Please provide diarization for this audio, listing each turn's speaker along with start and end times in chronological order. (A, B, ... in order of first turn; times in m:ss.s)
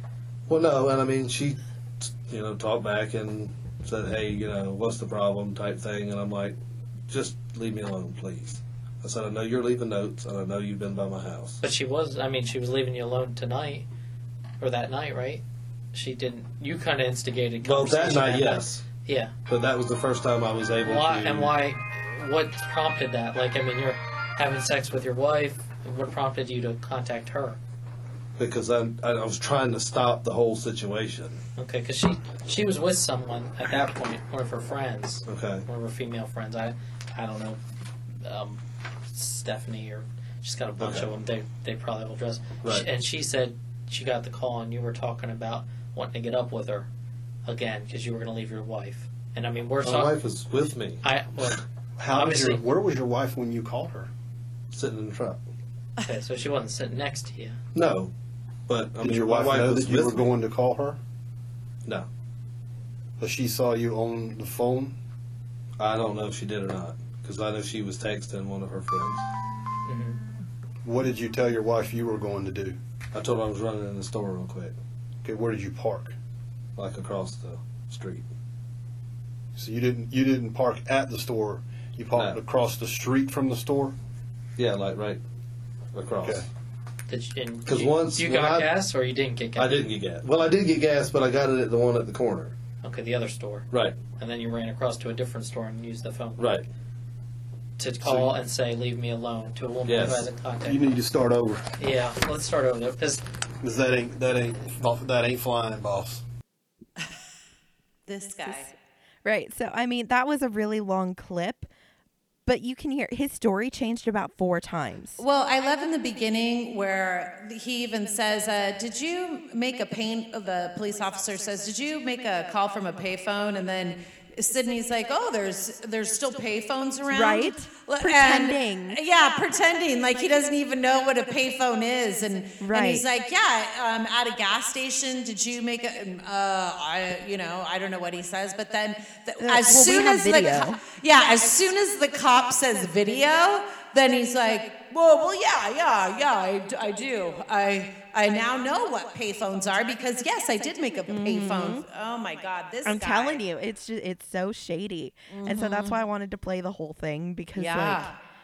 0:00.5-0:11.6 A
0:11.6-0:13.9 B
0:14.6-0:19.3 B
0:17.6-0:18.8 A
0:19.5-0:21.5 A
0:20.8-0:27.6 B
0:28.4-0:31.4 A
0:31.6-0:37.6 B
0:35.3-0:35.6 A
0:38.2-0:46.9 B
0:40.8-0:41.1 A
0:47.4-0:50.4 B
0:49.8-0:51.5 A
0:51.0-0:51.6 B
0:52.0-0:54.1 C
0:52.1-0:52.6 B
0:54.7-0:55.4 A
0:56.0-0:57.6 B
0:57.7-0:58.1 A
0:58.7-1:00.3 A
0:59.0-1:01.0 C
1:03.2-1:05.0 C
1:05.8-1:09.3 A
1:09.8-1:10.2 B
1:10.8-1:12.8 C
1:13.1-1:14.8 A
1:15.2-1:16.2 C
1:16.8-1:18.3 A
1:19.5-1:24.0 C
1:22.1-1:22.4 A
1:24.6-1:25.2 A
1:25.9-1:26.4 A
1:27.1-1:29.8 B
1:27.6-1:28.7 A
1:29.6-1:32.6 A
1:32.8-1:36.4 B
1:33.7-1:34.0 A
1:36.4-1:36.6 A
1:37.8-1:40.9 B
1:38.0-1:38.3 A
1:39.8-1:40.3 A
1:40.6-1:41.7 C
1:41.8-1:43.2 B
1:43.6-1:46.2 C
1:48.0-1:48.7 D
1:49.2-1:51.7 E
1:52.4-1:55.2 E
1:55.2-2:33.4 D
2:07.1-2:09.0 E
2:12.6-2:13.0 E
2:19.4-2:20.8 E
2:31.1-2:31.8 E
2:32.8-2:38.1 E
2:35.3-2:36.0 D
2:37.5-2:38.2 D